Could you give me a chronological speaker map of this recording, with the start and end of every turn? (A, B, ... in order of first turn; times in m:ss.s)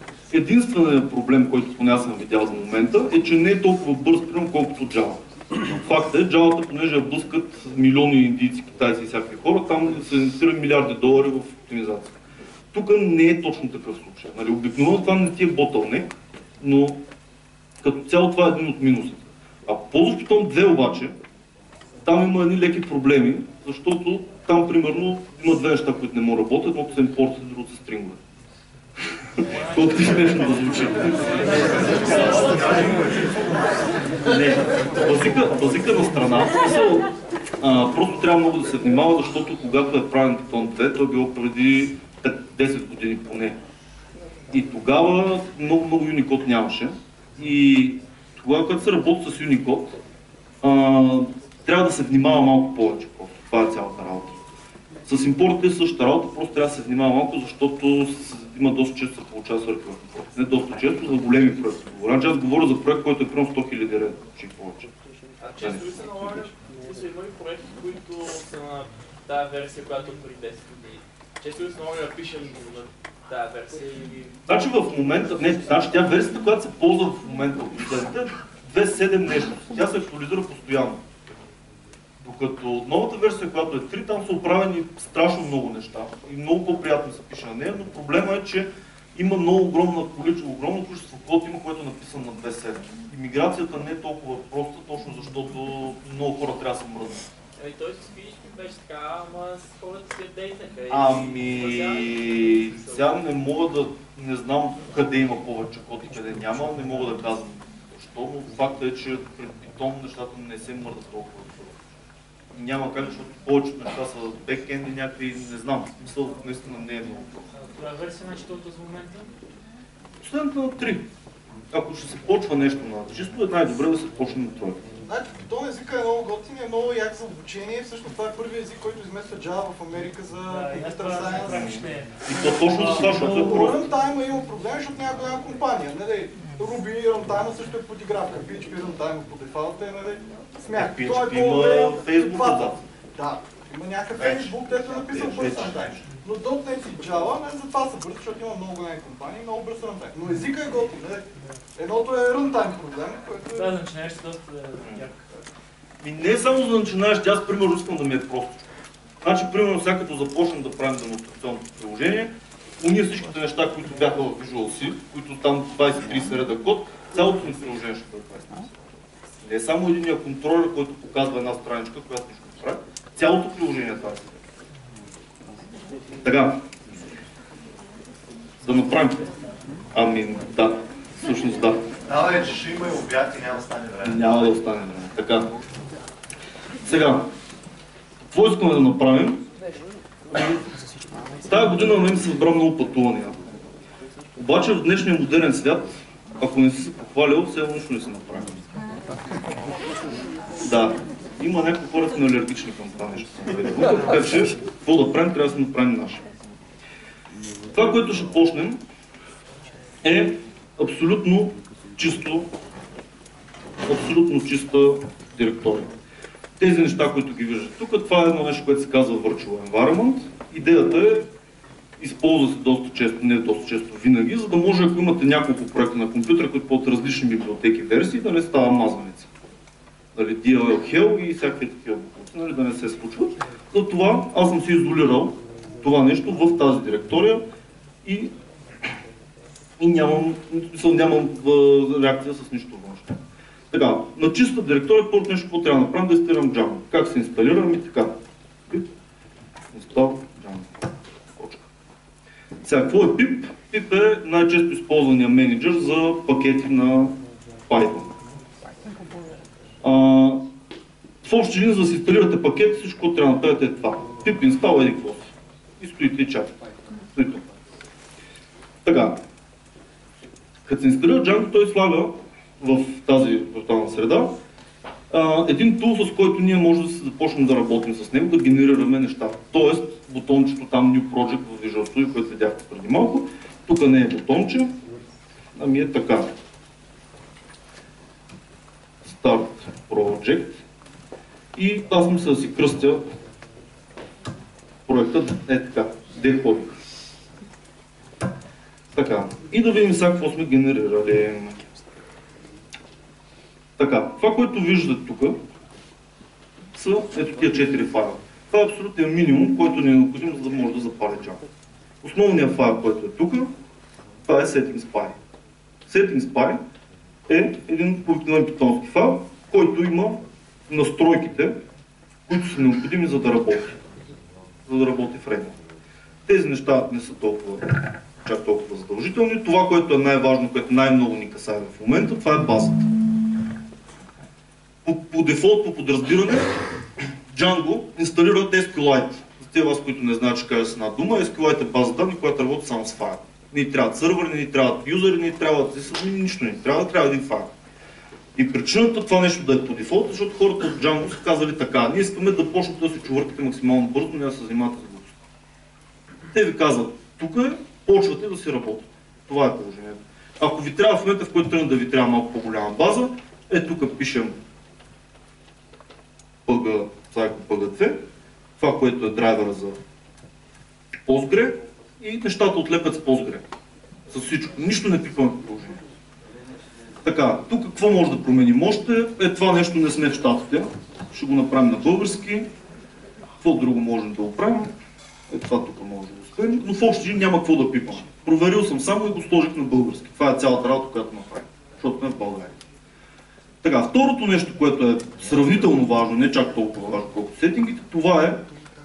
0:00.3-0:12.1 A
0:12.7-0:17.0 A
0:17.8-0:21.1 A
0:22.0-0:28.2 A
0:29.4-0:33.0 A
0:31.3-0:31.8 B
0:34.2-0:43.6 A
0:44.5-0:50.0 A
0:50.6-0:54.4 A
0:55.0-1:04.9 A
1:05.4-1:14.3 C
1:05.6-1:05.9 A
1:14.5-1:21.0 A
1:22.2-1:37.3 A
1:37.6-1:43.1 C
1:40.9-1:51.9 A
1:52.5-1:57.5 A
1:57.5-1:59.3 B
2:00.2-2:01.1 A
2:01.7-2:04.8 A
2:05.0-2:11.7 D
2:10.5-2:13.7 B
2:11.5-2:13.8 A
2:12.8-2:33.8 D
2:20.7-2:22.8 A
2:24.2-2:24.5 A
2:25.1-2:25.8 A
2:33.5-2:35.2 B
2:36.0-2:38.6 A
2:39.2-2:48.7 A
2:49.4-2:54.4 A
2:56.2-2:56.6 A
2:58.6-2:59.2 A
2:59.9-3:01.8 A
3:02.1-3:04.3 E
3:04.0-3:05.5 A
3:06.8-3:07.3 A
3:08.3-3:09.4 A
3:10.3-3:11.8 B
3:11.5-3:13.4 A
3:14.4-3:18.6 A
3:20.6-3:26.2 A
3:27.7-3:28.8 A
3:30.0-3:32.5 A
3:33.8-3:35.9 A
3:36.6-3:41.3 A
3:42.0-3:49.3 A
3:50.2-3:57.4 A
3:58.0-3:58.3 A
3:59.8-4:03.1 A
4:03.7-4:08.1 A
4:09.7-4:10.7 A
4:11.4-4:11.6 A
4:12.6-4:17.2 A
4:17.7-4:18.1 A
4:19.8-4:20.4 A
4:21.2-4:26.5 A
4:27.2-4:27.5 A
4:28.8-4:29.2 A
4:30.6-4:34.3 A
4:35.1-4:44.7 A
4:45.6-4:46.3 A
4:49.0-4:50.6 A
4:51.5-4:53.0 A
4:54.9-4:56.7 A
4:58.9-5:01.6 A
5:03.8-5:05.4 A
5:06.7-5:11.4 A
5:12.0-5:13.5 A
5:14.2-5:15.1 A
5:15.9-5:16.6 A
5:17.3-5:21.6 A
5:22.3-5:23.8 A
5:24.7-5:25.6 A
5:26.2-5:32.9 A
5:34.8-5:36.5 A
5:37.3-5:47.5 A
5:48.4-5:55.2 A
5:56.3-6:04.4 A
6:06.4-6:08.0 A
6:08.6-6:09.8 A
6:11.0-6:13.4 A
6:14.1-6:15.8 A
6:17.0-6:22.5 A
6:23.4-6:24.7 A
6:25.3-6:32.6 A
6:33.6-6:38.4 A